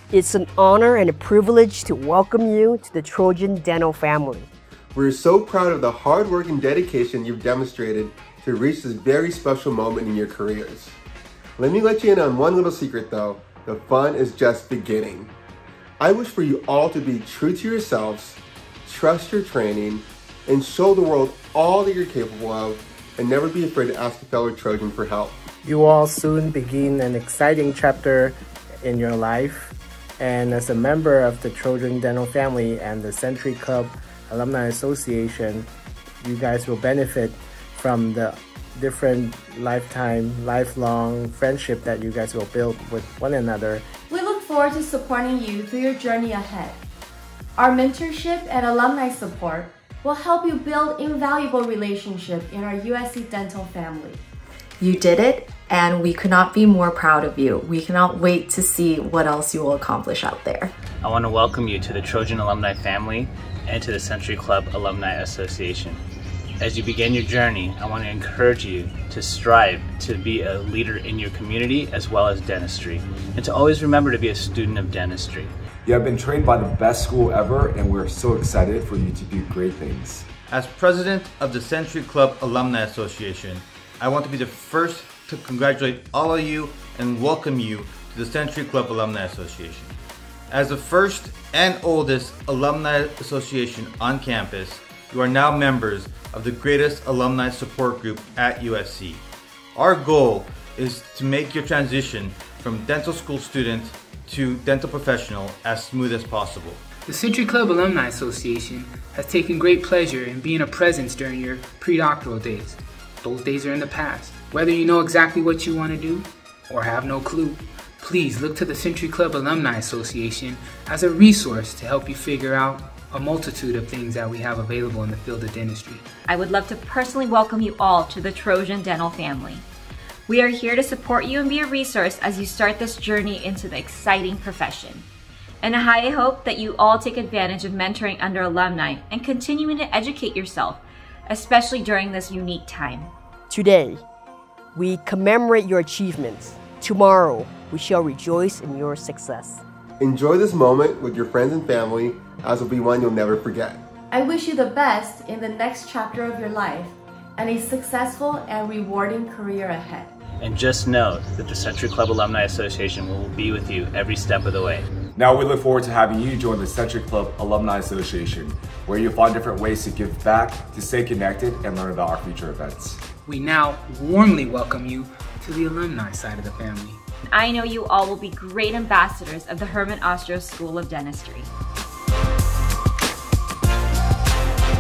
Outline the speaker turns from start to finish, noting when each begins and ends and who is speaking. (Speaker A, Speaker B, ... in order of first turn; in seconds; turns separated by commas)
Speaker A: 0.1-4.5, Speaker B: 5.0-11.0, Speaker B: 11.6-15.3, Speaker B: 16.0-25.4, Speaker C: 25.6-35.7, Speaker C: 36.2-43.9, Speaker D: 44.1-46.8, Speaker D: 47.6-54.2, Speaker E: 54.8-60.7, Speaker F: 61.0-66.0, Speaker F: 66.6-75.5, Speaker G: 75.9-80.3, Speaker H: 80.5-90.0, Speaker H: 90.5-99.2, Speaker H: 99.8-106.8, Speaker I: 107.1-126.0, Speaker J: 126.3-129.7, Speaker J: 130.3-135.1, Speaker J: 135.6-143.1, Speaker A: 143.5-144.0, Speaker A: 144.8-149.6, Speaker B: 150.0-153.8, Speaker D: 154.1-160.1, Speaker F: 160.4-164.8, Speaker G: 165.2-173.0, Speaker I: 173.2-177.0, Speaker J: 177.3-181.5